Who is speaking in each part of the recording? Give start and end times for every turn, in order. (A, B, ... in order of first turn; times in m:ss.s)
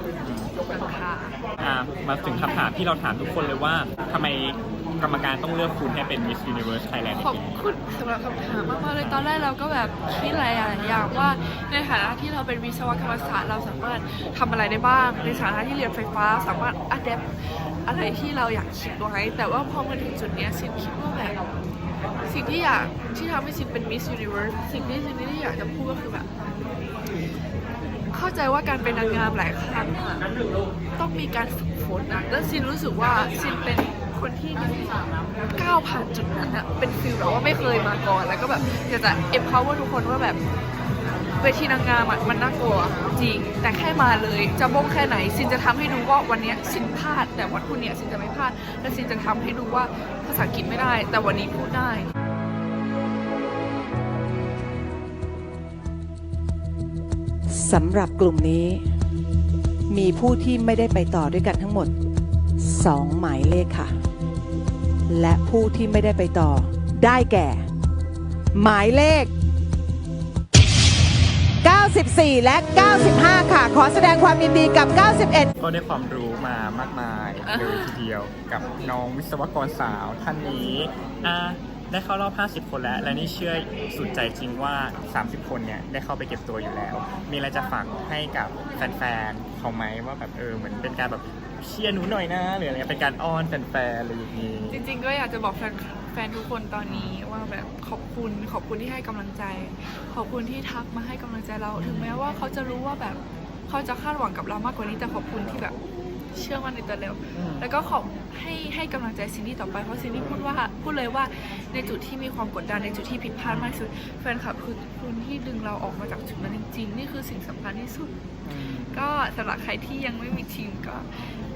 0:00.2-0:00.5 A
0:00.7-0:01.4 B
0:01.6-0:07.5 A
0:07.2-0:17.3 B
0:09.0-0:09.2 A
0:17.8-0:21.4 B
0:22.2-0:26.3 B
0:28.1-0:30.3 B
0:31.0-0:40.4 B
0:41.4-0:52.1 B
0:57.5-0:58.8 C
0:59.9-1:01.9 C
1:02.6-1:03.9 C
1:05.1-1:07.7 C
1:08.6-1:09.3 C
1:11.6-1:15.5 C
1:15.6-1:34.8 A
1:17.4-1:18.0 B
1:34.7-1:45.8 B
1:36.9-1:37.2 A
1:41.8-1:42.2 A
1:46.3-2:01.1 B
1:47.4-1:47.7 A
1:58.5-1:59.0 A